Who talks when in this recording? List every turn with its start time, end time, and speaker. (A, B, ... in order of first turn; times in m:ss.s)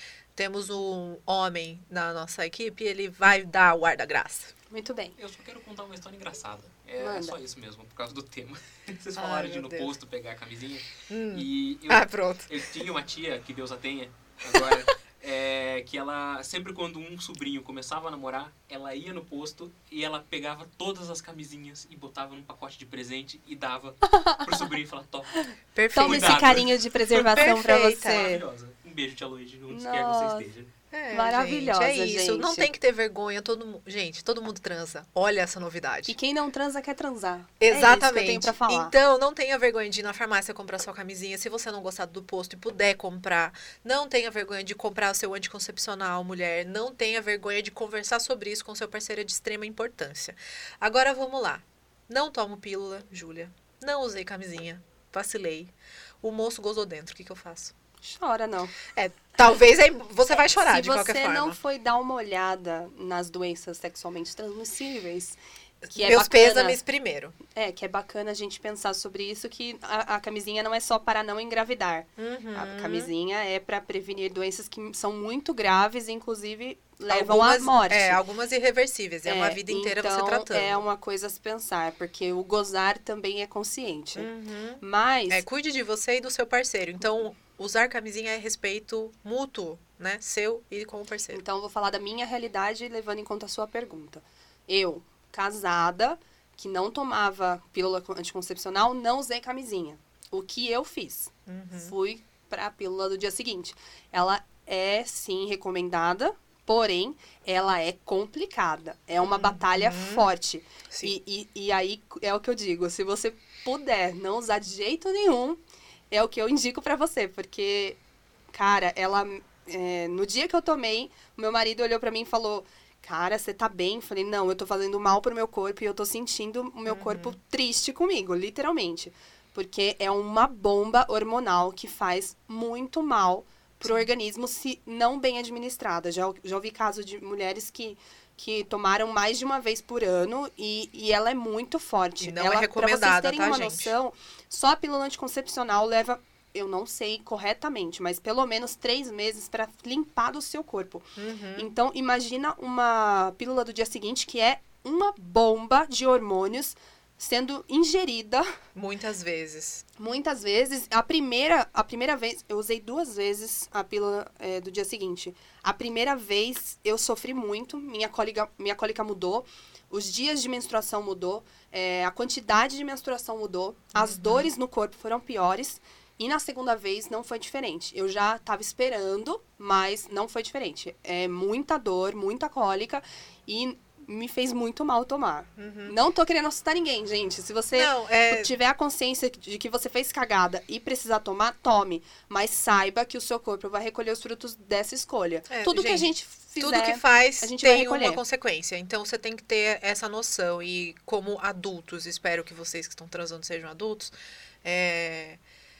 0:00.4-0:04.5 A
0:04.7-0:05.2 B
0:05.2-0:30.7 C
0:07.0-0:07.4 B
0:09.2-0:09.9 A
0:11.1-0:12.6 A
0:24.1-0:24.4 B
0:25.8-0:26.7 A
0:25.9-0:28.4 B
0:27.3-0:28.3 A
0:29.7-0:30.4 B
0:30.9-0:36.1 A
0:31.1-0:32.7 B
0:36.1-0:38.9 B
0:37.6-0:57.7 A
0:58.0-0:58.8 B
0:58.9-1:01.6 A
1:00.3-1:05.4 B
1:05.8-1:07.4 A
1:05.9-1:06.8 B
1:07.5-1:18.2 B
1:12.2-1:13.1 A
1:17.1-1:20.8 A
1:19.2-1:25.4 B
1:24.2-1:31.4 A
1:31.3-1:58.0 B
1:41.5-1:41.9 A
1:49.2-1:50.2 A
1:50.9-1:51.1 A
1:58.5-2:38.5 B
2:06.9-2:07.4 A
2:22.2-2:23.9 A
2:31.2-2:31.7 A
2:38.7-2:39.8 A
2:40.0-3:18.2 B
2:53.9-2:54.5 A
3:05.6-3:05.9 A
3:07.7-3:08.5 A
3:15.5-3:24.1 A
3:24.6-3:25.4 A